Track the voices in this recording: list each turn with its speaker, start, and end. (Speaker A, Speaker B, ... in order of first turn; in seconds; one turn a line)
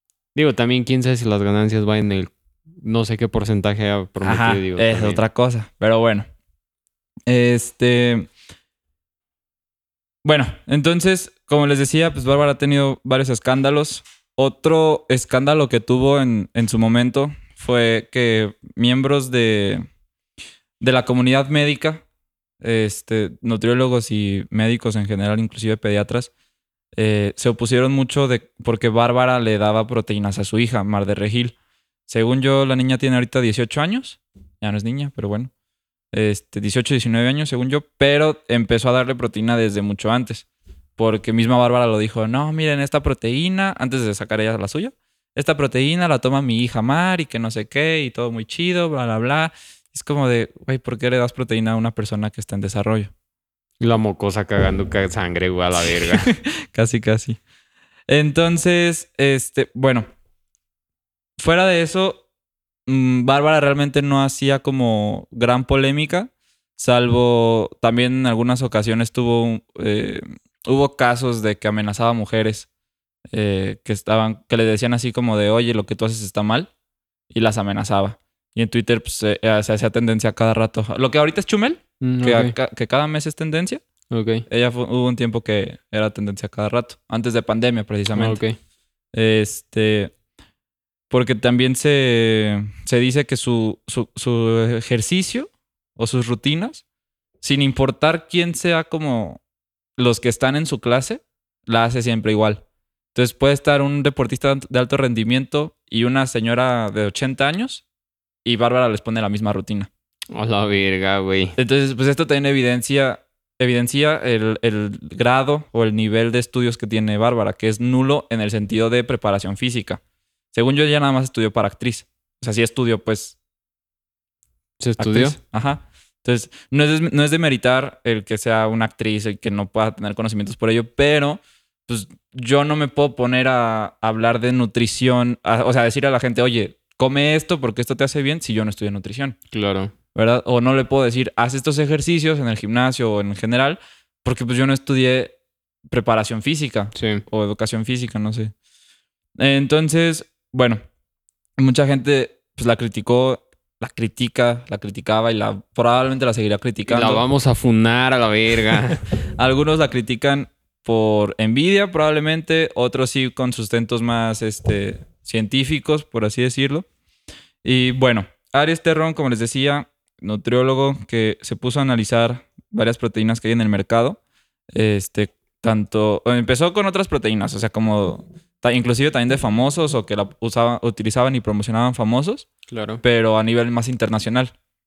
Speaker A: 0.3-5.2
Speaker B: 4.2-6.2
Speaker B: 7.3-8.3
Speaker B: 10.2-19.9
Speaker B: 20.8-22.0
Speaker B: 22.6-26.3
Speaker B: 26.9-31.6
Speaker B: 32.1-35.5
Speaker B: 36.1-40.4
Speaker B: 41.0-53.1
Speaker A: 53.8-56.3
Speaker B: 55.9-57.4
Speaker B: 58.1-60.1
Speaker B: 61.4-62.2
Speaker B: 62.9-72.7
Speaker B: 73.3-76.7
Speaker B: 77.3-83.8
Speaker A: 82.0-82.5
Speaker A: 84.1-84.4
Speaker B: 84.5-88.4
Speaker A: 88.2-88.6
Speaker B: 89.1-90.1
Speaker B: 91.1-96.8
Speaker B: 97.4-99.4
Speaker B: 100.0-107.8
Speaker B: 108.4-109.9
Speaker A: 110.3-111.6
Speaker B: 111.6-120.0
Speaker B: 120.5-123.4
Speaker A: 124.8-125.4
Speaker B: 125.0-139.4
Speaker A: 139.5-139.9
Speaker B: 140.1-145.3
Speaker B: 145.9-148.5
Speaker A: 146.9-147.2
Speaker B: 149.4-150.8
Speaker B: 151.6-157.2
Speaker A: 156.9-159.0
Speaker B: 159.4-166.9
Speaker B: 167.6-174.2
Speaker B: 174.7-182.5
Speaker A: 182.7-183.0
Speaker B: 183.0-184.5